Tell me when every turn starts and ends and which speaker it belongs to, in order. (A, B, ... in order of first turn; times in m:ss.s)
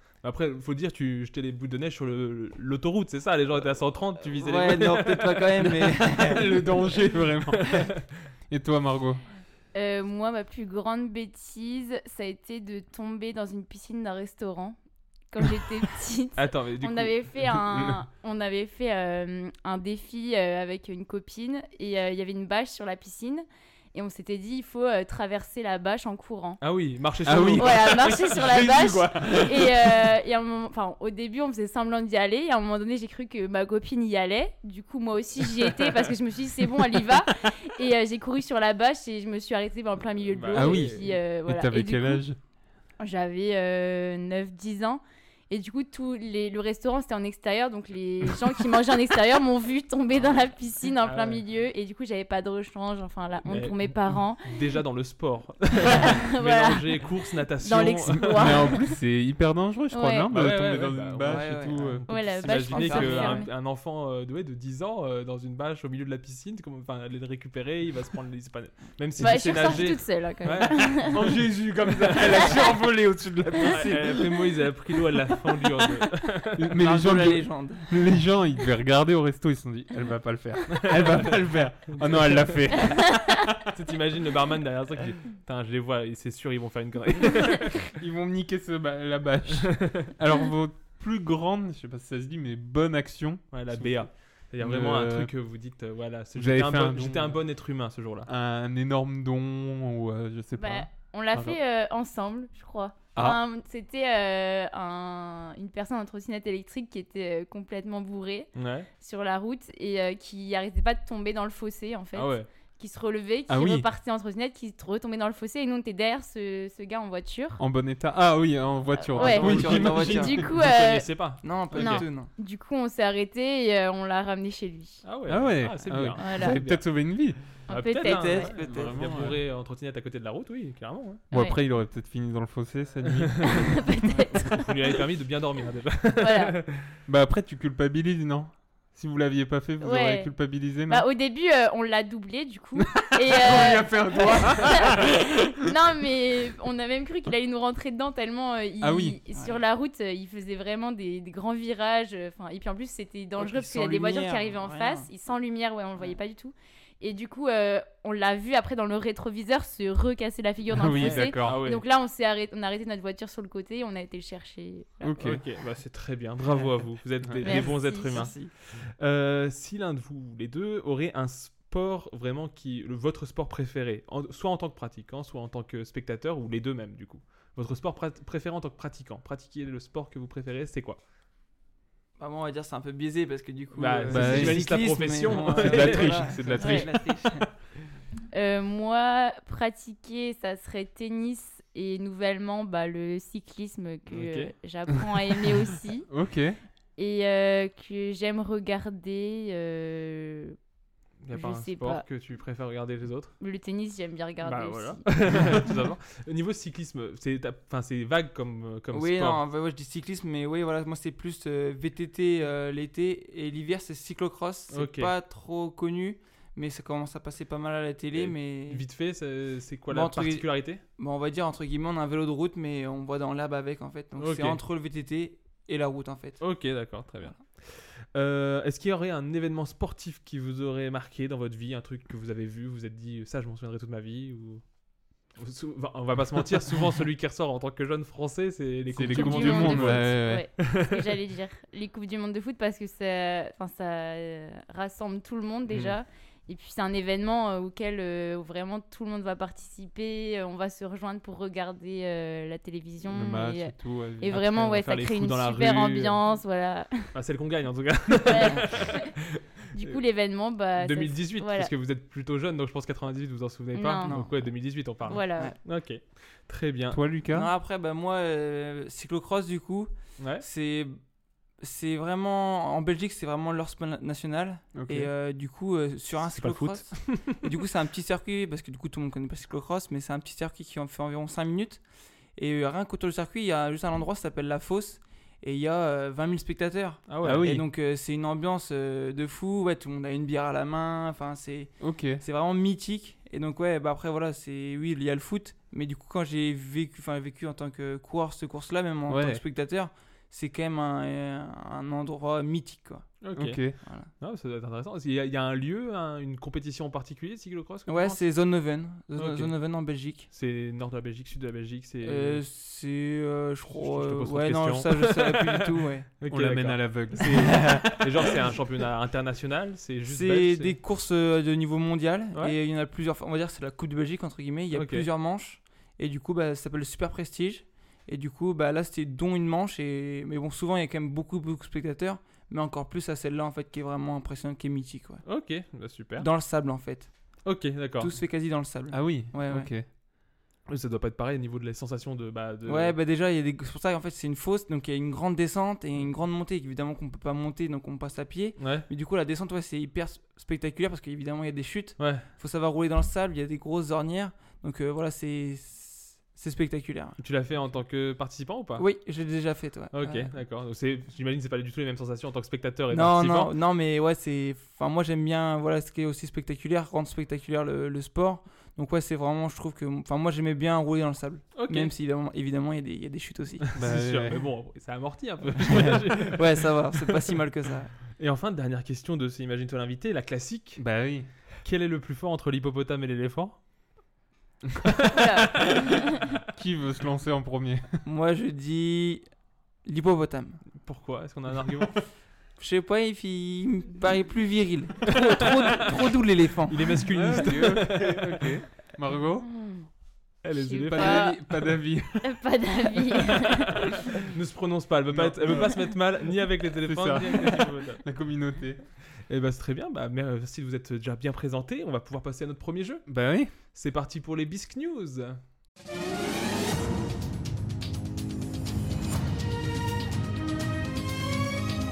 0:00.2-0:06.4 A
0:04.4-0:06.7 B
0:06.2-0:07.7 C
0:07.6-0:07.9 A
0:08.5-0:09.2 C
0:09.7-0:14.8 D
0:15.3-0:26.6 D
0:16.4-0:17.6 A
0:17.7-0:18.0 C
0:26.6-0:28.0 A
0:27.2-0:30.1 C
0:27.6-0:42.2 D
0:40.3-0:41.1 A
0:40.5-0:42.4 C
0:43.0-0:54.5 D
0:51.0-0:51.4 A
0:53.5-0:58.7 A
0:55.9-0:57.0 D
0:57.6-0:58.8 D
0:58.3-1:02.2 C
0:59.9-1:00.3 D
1:00.3-1:11.1 A
1:01.2-1:02.0 B
1:02.1-1:03.5 D
1:02.6-1:03.5 B
1:09.2-1:11.1 D
1:10.9-1:14.0 C
1:13.6-1:14.3 B
1:13.6-1:16.8 A
1:16.6-1:23.6 C
1:16.8-1:17.9 B
1:20.8-1:21.4 A
1:21.9-1:22.6 A
1:23.7-1:27.9 A
1:28.0-1:34.1 C
1:29.8-1:30.1 A
1:33.5-1:38.3 A
1:34.6-1:35.3 C
1:36.4-1:37.4 C
1:38.3-1:41.6 C
1:40.6-1:57.6 D
1:43.2-1:43.4 C
1:48.6-1:48.9 A
1:52.1-1:52.5 A
1:53.5-1:53.9 C
1:57.6-2:00.4 C
1:59.0-2:01.1 D
1:59.2-2:00.4 B
1:59.6-2:02.1 A
2:01.4-2:02.3 B
2:01.7-2:05.0 D
2:05.0-2:06.9 A
2:05.3-2:07.4 C
2:06.2-2:06.6 D
2:07.7-2:08.5 D
2:07.7-2:11.2 A
2:08.0-2:09.4 B
2:08.6-2:09.4 C
2:11.3-2:11.6 D
2:11.3-2:13.8 C
2:13.4-2:16.8 A
2:13.6-2:14.7 D
2:16.2-2:16.6 D
2:17.1-2:21.1 C
2:19.8-2:20.3 D
2:20.9-2:45.2 D
2:22.8-2:25.3 C
2:28.8-2:29.2 C
2:29.4-2:29.6 B
2:33.4-2:35.1 B
2:40.7-2:41.7 C
2:41.0-2:41.8 A
2:45.0-2:45.4 C
2:45.2-3:01.0 A
2:47.4-2:48.3 D
2:47.5-2:48.5 B
3:02.2-3:07.5 B
3:03.8-3:06.8 A
3:04.1-3:07.1 C
3:06.6-3:06.9 D
3:08.3-3:16.1 D
3:14.1-3:14.5 A
3:16.1-3:16.6 C
3:17.0-3:20.6 D
3:21.2-3:23.4 A
3:21.3-3:22.0 D
3:23.4-3:25.6 D
3:24.4-3:29.4 A
3:28.9-3:38.8 B
3:34.7-3:35.1 A
3:38.1-3:40.8 A
3:39.9-3:46.4 B
3:44.2-3:44.6 A
3:46.4-3:54.6 A
3:55.4-4:00.9 A
3:58.9-4:00.5 C
3:59.1-4:17.1 D
4:05.7-4:05.9 A
4:13.1-4:14.8 C
4:14.3-4:16.2 A
4:17.1-4:19.0 A
4:18.2-4:19.0 D
4:19.7-4:21.7 D
4:20.8-4:27.0 A
4:23.7-4:24.2 D
4:24.0-4:24.5 B
4:25.1-4:25.5 D
4:25.1-4:25.6 B
4:26.9-4:27.5 C
4:27.3-4:31.0 B
4:30.2-4:30.4 A
4:31.6-4:41.8 B
4:34.7-4:35.1 C
4:36.3-4:37.4 A
4:42.4-5:03.2 B
4:47.1-4:47.5 A
4:47.2-4:47.6 C
4:51.8-4:52.2 C
4:59.1-4:59.4 C
5:03.2-5:08.2 A
5:03.4-5:03.8 C
5:03.8-5:04.1 B
5:07.9-5:10.3 B
5:09.2-5:09.5 A
5:10.3-5:12.4 A
5:12.0-5:16.1 B
5:13.7-5:20.8 A
5:16.3-5:17.9 C
5:17.5-5:18.0 B
5:20.1-5:35.2 B
5:24.7-5:25.1 A
5:35.2-5:36.3 A
5:36.2-5:37.1 B
5:37.4-5:38.1 A
5:38.0-5:39.7 B
5:38.9-5:39.9 C
5:40.7-5:43.0 A
5:42.7-5:57.2 B
5:48.6-5:48.9 A
5:52.0-5:52.3 A
5:57.2-5:58.9 A
5:58.8-6:00.3 B
5:59.9-6:03.5 A
6:02.9-6:13.7 B
6:11.6-6:11.9 A
6:13.7-6:17.0 A
6:13.8-6:14.4 C
6:15.8-6:17.9 B
6:18.1-6:20.9 A
6:20.8-6:21.3 C
6:21.6-6:23.6 A
6:25.1-6:26.1 D
6:26.5-6:27.8 C
6:28.0-6:29.3 B
6:29.8-6:30.6 B
6:30.8-6:32.0 A
6:32.6-6:37.0 B
6:35.3-6:35.7 A
6:36.7-6:38.6 A
6:37.1-6:39.5 C
6:39.5-6:39.9 D
6:40.4-6:41.3 A
6:40.5-6:41.7 D
6:40.7-6:42.3 C
6:42.2-6:43.7 D
6:44.3-6:48.0 A
6:45.1-6:46.1 C
6:46.8-6:48.8 C
6:49.3-6:55.4 A
6:53.1-6:53.5 C